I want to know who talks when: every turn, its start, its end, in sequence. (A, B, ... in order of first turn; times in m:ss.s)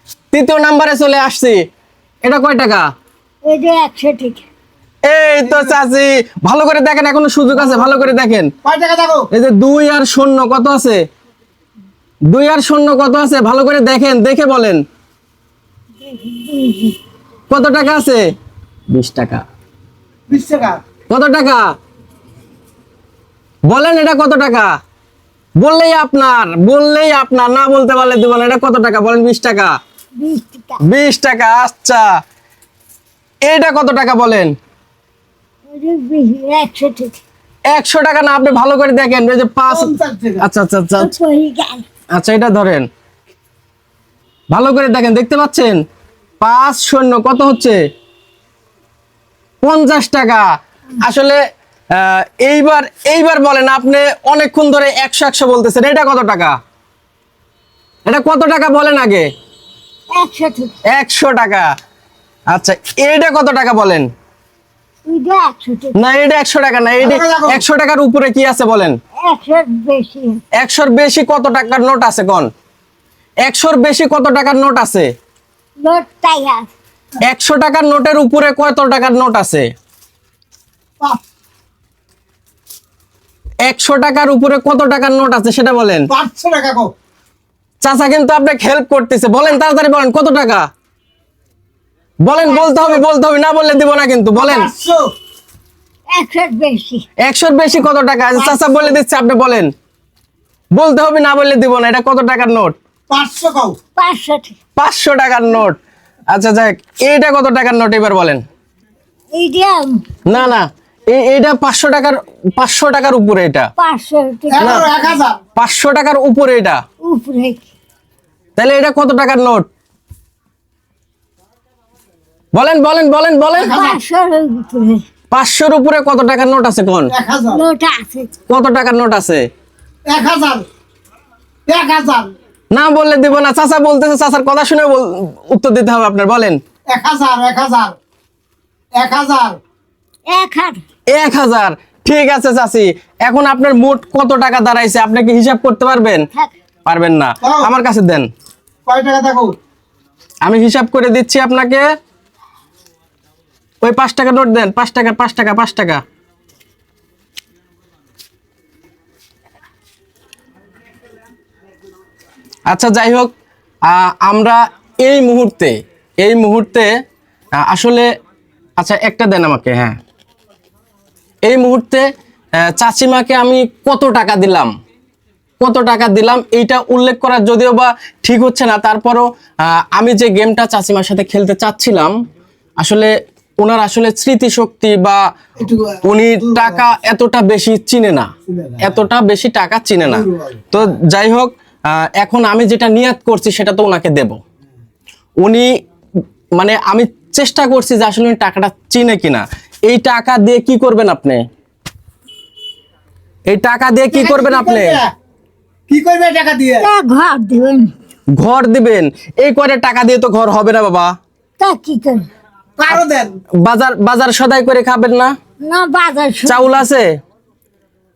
0:00.3-0:01.6 A
0:02.2-0:02.9 A
0:03.4-0:04.4 B
0:05.1-0:08.5 A
0:08.6-0:09.3 C
0:09.3-0:11.0 A
0:12.3-0:14.8 A
0:16.0-0:17.0 B
0:17.5-0:18.2 A
0:18.9-0:19.4 A
0:20.3-0:20.8 C
0:21.1-0:21.7 A
0:23.7-0:24.7 A
0:25.6-0:29.8 A
0:30.2-0:30.8 B
0:30.8-0:32.0 A
0:33.4-0:34.5 A
0:35.7-0:37.2 B
0:37.7-0:41.1 A
0:39.7-0:40.4 C
0:41.0-0:41.8 B
0:42.1-0:42.9 A
0:44.5-0:45.8 A
0:46.4-0:47.8 A
0:49.6-0:50.5 A
0:51.0-0:51.4 A
0:51.9-0:56.6 A
0:58.1-0:59.3 A
1:00.1-1:00.7 B
1:00.9-1:01.7 A
1:02.5-1:04.1 A
1:05.0-1:05.9 B
1:06.0-1:08.9 A
1:07.0-1:07.6 C
1:09.2-1:10.4 B
1:10.6-1:12.5 A
1:13.4-1:15.1 A
1:15.8-1:16.7 B
1:17.2-1:19.7 A
1:23.6-1:26.1 A
1:26.1-1:26.9 C
1:27.8-1:30.6 A
1:32.2-1:34.7 A
1:34.3-1:35.0 C
1:36.1-1:37.0 B
1:37.2-1:39.7 A
1:38.3-1:39.0 B
1:40.7-1:42.7 A
1:43.1-1:43.8 C
1:44.0-1:44.6 B
1:44.8-1:45.8 A
1:46.3-1:48.4 A
1:49.3-1:50.2 B
1:50.3-1:53.7 A
1:53.8-1:55.2 B
1:54.5-1:55.4 C
1:55.6-1:56.8 A
1:57.0-1:57.6 B
1:58.6-1:59.7 A
2:02.5-2:03.8 A
2:03.6-2:05.0 B
2:03.7-2:04.0 C
2:05.3-2:07.1 A
2:07.1-2:07.6 C
2:07.5-2:08.3 B
2:08.5-2:09.5 A
2:10.1-2:10.6 C
2:11.7-2:12.3 C
2:12.7-2:16.6 A
2:16.9-2:17.9 C
2:19.0-2:19.6 C
2:20.3-2:20.8 B
2:21.1-2:26.2 A
2:26.8-2:28.3 A
2:27.4-2:27.7 C
2:28.9-2:29.5 C
2:30.4-2:31.8 A
2:33.8-2:36.0 A
2:42.7-2:43.3 A
2:43.9-2:46.9 A
2:47.5-2:48.1 A
2:48.8-2:50.0 A
2:51.4-2:52.1 A
2:52.6-2:54.7 A
2:55.6-3:02.1 A
3:02.8-3:05.2 A
3:05.6-3:06.9 C
3:06.0-3:08.3 A
3:08.5-3:08.9 C
3:08.8-3:14.4 A
3:10.0-3:10.6 C
3:15.4-3:15.7 A
3:16.5-3:21.4 A
3:23.5-3:25.0 A
3:24.1-3:25.1 C
3:25.9-3:26.9 C
3:26.8-3:27.9 B
3:28.4-3:31.1 A
3:31.6-3:32.3 B
3:32.8-3:33.3 C
3:33.6-3:35.4 A
3:35.6-3:36.8 B
3:36.4-3:37.1 A